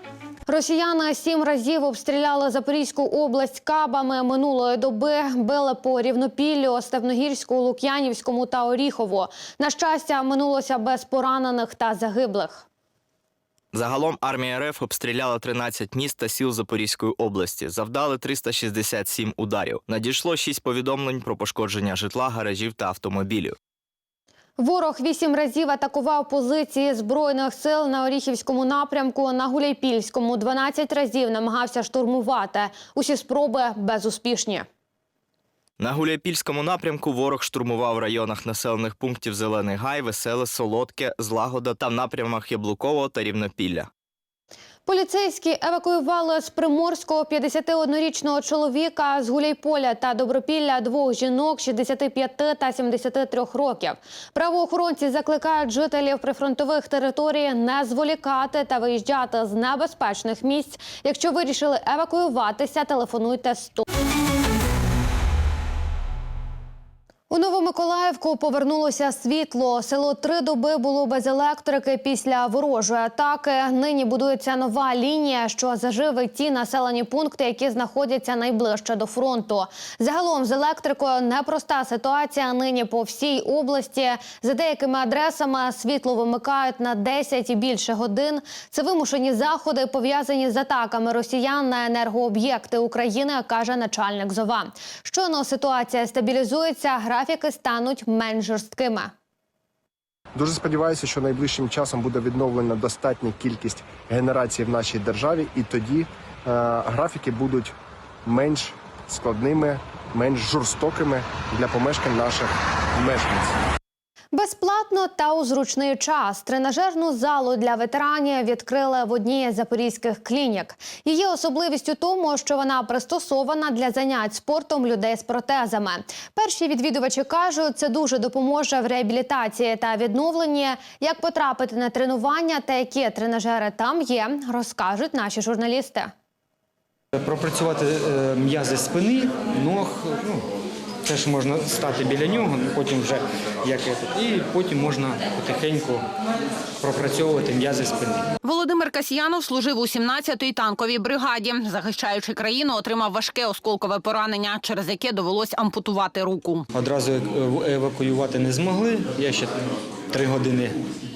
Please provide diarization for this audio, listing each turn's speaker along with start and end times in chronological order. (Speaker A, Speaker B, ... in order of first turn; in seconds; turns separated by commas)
Speaker A: 0.5-12.7, Speaker B: 13.7-23.6, Speaker A: 24.6-34.7, Speaker B: 35.8-43.9, Speaker A: 44.9-63.8, Speaker A: 67.3-99.1, Speaker C: 100.3-107.7, Speaker C: 108.3-113.6, Speaker A: 114.3-136.1, Speaker D: 137.2-140.5, Speaker D: 141.1-146.0, Speaker D: 146.8-148.3, Speaker E: 148.4-156.6, Speaker D: 156.7-159.6, Speaker D: 160.1-160.8